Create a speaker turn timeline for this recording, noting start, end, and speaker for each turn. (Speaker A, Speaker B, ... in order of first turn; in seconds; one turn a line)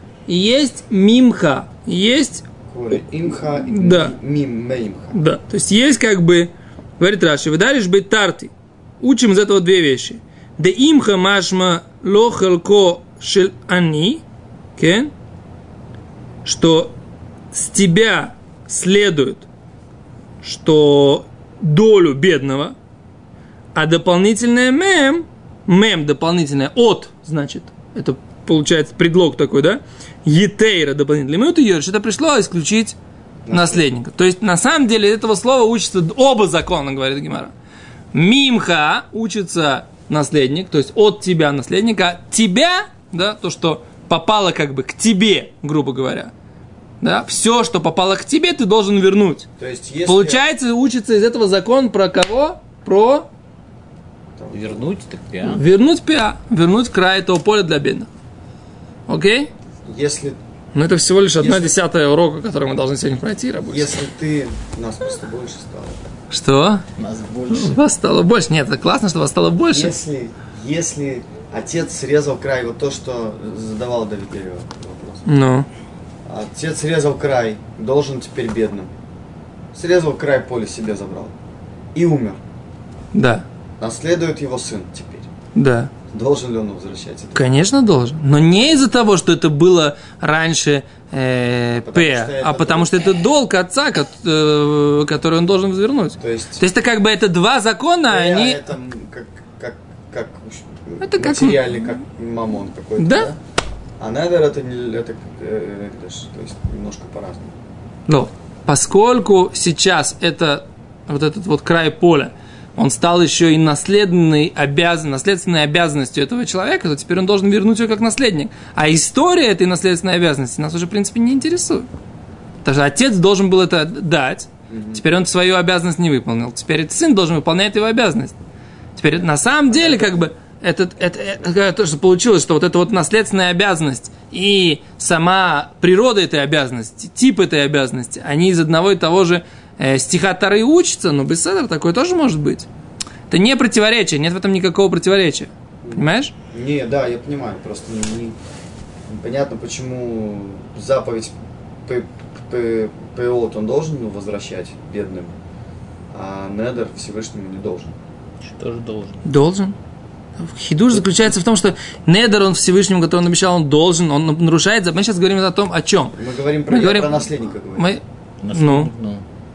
Speaker A: 0.3-2.4
Speaker B: 2.7-5.2
Speaker A: 3.6-4.1
Speaker A: 5.1-14.2
Speaker A: 14.8-15.1
Speaker A: 16.4-16.9
Speaker A: 17.5-19.4
Speaker A: 20.4-22.7
Speaker A: 23.7-33.0
Speaker B: 33.4-33.8
Speaker A: 33.5-37.5
Speaker A: 38.1-46.3
Speaker A: 47.0-49.5
Speaker B: 49.6-50.4
Speaker A: 50.1-53.3
Speaker B: 54.4-54.9
Speaker C: 54.5-55.6
Speaker A: 55.4-58.1
Speaker A: 59.1-59.5
Speaker B: 59.9-60.4
Speaker A: 60.7-63.9
Speaker B: 61.4-61.7
Speaker B: 63.6-66.0
Speaker A: 66.3-66.8
Speaker C: 67.0-67.8
Speaker A: 67.5-69.9
Speaker B: 69.7-75.3
Speaker A: 75.3-75.7
Speaker B: 76.2-78.9
Speaker B: 79.7-81.3
Speaker B: 81.9-82.4
Speaker A: 83.1-83.4
Speaker B: 83.8-85.3
Speaker A: 85.5-85.9
Speaker B: 86.1-87.5
Speaker A: 87.3-98.6
Speaker B: 91.8-93.1
Speaker B: 96.2-96.6
Speaker B: 98.1-103.4
Speaker A: 101.0-101.9
Speaker A: 103.0-103.3
Speaker B: 104.0-107.5
Speaker A: 108.1-121.9
Speaker A: 122.6-128.3
Speaker B: 124.7-125.0
Speaker A: 128.9-142.7
Speaker B: 129.7-130.3
Speaker A: 143.3-146.3
Speaker B: 145.8-148.4
Speaker B: 149.1-151.3
Speaker B: 151.8-155.4
Speaker B: 156.1-157.9
Speaker C: 158.4-159.3
Speaker A: 159.2-159.7
Speaker A: 160.4-168.9
Speaker B: 166.2-168.0
Speaker C: 168.4-169.2